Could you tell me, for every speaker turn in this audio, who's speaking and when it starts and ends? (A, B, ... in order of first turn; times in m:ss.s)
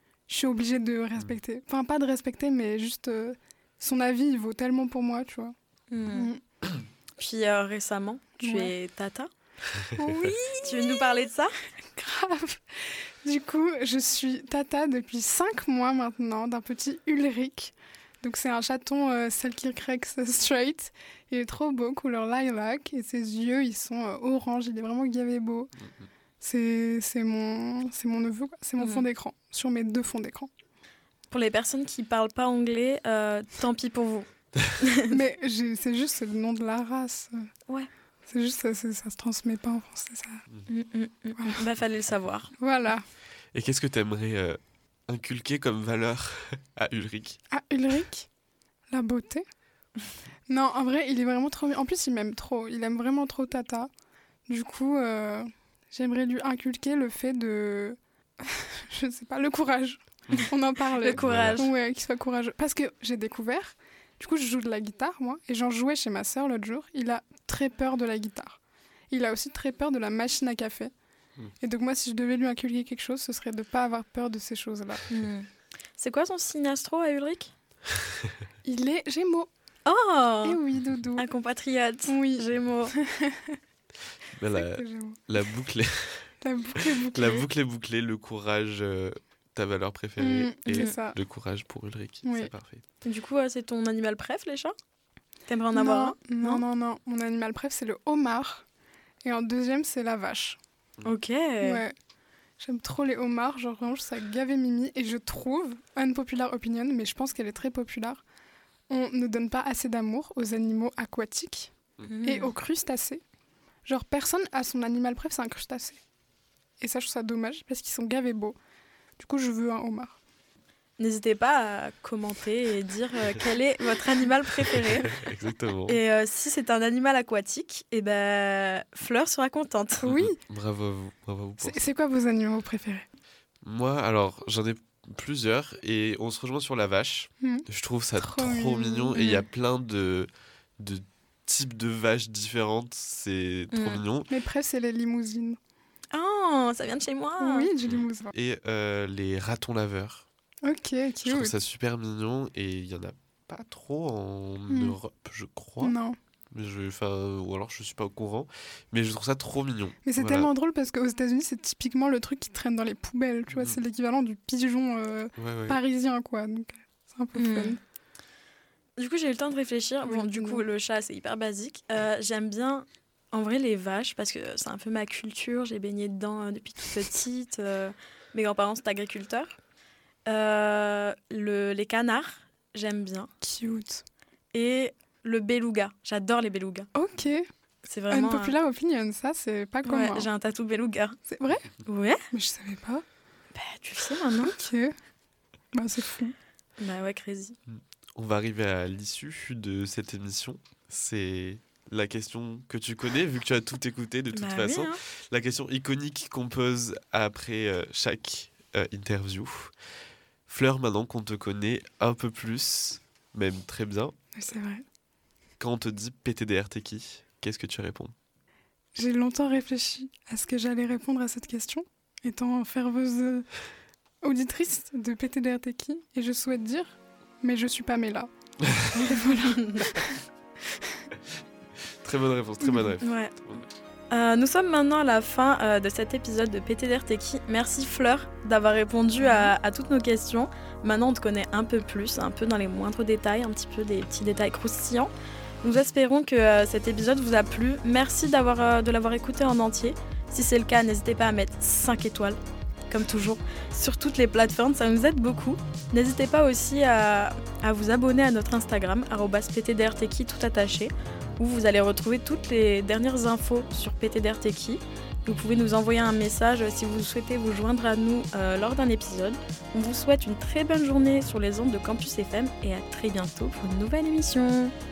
0:00.3-0:05.5 A
0:05.9-0:06.3 B
0:06.1-0:06.4 A
0:07.2-0:09.3 B
0:08.4-0:08.7 A
0:09.9-0:11.5 B
0:10.0-0:11.0 A
0:12.0-0:25.7 A
0:26.4-0:30.5 A
0:31.3-0:35.2 B
0:35.1-0:37.5 A
0:38.3-0:40.4 A
0:40.7-0:42.5 B
0:42.6-0:43.0 A
0:43.5-0:47.4 C
0:47.5-0:48.3 A
0:48.9-0:49.4 A
0:50.5-0:53.9 A
0:54.5-1:08.6 A
1:00.9-1:01.7 B
1:01.1-1:01.6 C
1:09.1-1:10.9 A
1:11.6-1:15.0 A
1:15.1-1:15.5 B
1:16.0-1:17.5 B
1:18.6-1:19.5 A
1:19.9-1:20.6 B
1:20.4-1:21.3 A
1:21.2-1:23.0 B
1:22.1-1:23.6 A
1:24.4-1:26.3 C
1:24.5-1:25.2 A
1:26.4-1:27.4 A
1:26.9-1:32.8 C
1:30.2-1:31.2 A
1:32.2-1:32.5 A
1:33.0-1:34.7 B
1:35.5-1:36.6 B
1:35.7-1:38.6 A
1:39.2-1:40.6 A
1:41.0-1:41.8 B
1:41.6-1:41.9 A
1:42.6-1:48.2 A
1:48.9-1:53.2 A
1:52.1-1:52.5 B
1:53.9-1:56.0 A
1:56.8-1:58.6 A
1:59.2-2:00.2 A
2:01.0-2:05.2 B
2:05.0-2:06.0 C
2:05.9-2:10.0 B
2:10.0-2:10.4 A
2:10.0-2:11.8 C
2:11.6-2:13.1 A
2:13.6-2:24.3 C
2:17.4-2:19.4 A
2:19.1-2:19.4 B
2:23.7-2:24.0 B
2:24.3-2:25.6 A
2:26.1-2:27.7 B
2:27.4-2:28.3 A
2:27.8-2:30.2 C
2:30.6-2:31.6 A
2:31.2-2:35.9 C
2:34.7-2:35.0 A
2:35.8-2:36.2 A
2:36.5-2:40.5 C
2:40.0-2:47.8 A
2:43.5-2:43.8 C
2:45.4-2:45.8 C
2:47.4-2:47.8 B
2:49.0-2:59.6 B
2:50.0-2:50.6 A
3:00.3-3:03.3 B
3:03.4-3:04.0 A
3:04.5-3:06.9 B
3:06.9-3:07.4 A
3:07.8-3:08.5 B
3:08.1-3:10.3 A
3:09.8-3:11.2 B
3:11.3-3:11.7 A
3:11.8-3:12.2 B
3:12.3-3:13.0 A
3:13.5-3:14.6 B
3:14.4-3:14.9 A
3:15.7-3:16.3 A
3:16.8-3:17.6 B
3:17.7-3:29.7 C
3:24.3-3:25.0 B
3:30.5-3:34.1 C
3:34.4-3:34.8 A
3:35.6-3:38.1 C
3:38.9-3:43.5 A
3:44.2-3:48.3 A
3:48.6-3:48.9 C
3:48.9-3:50.2 A
3:50.7-3:51.0 A
3:51.9-3:53.6 C
3:53.0-3:53.3 B
3:54.1-4:05.1 B
3:59.2-3:59.5 A
4:05.6-4:12.4 B
4:12.9-4:34.7 B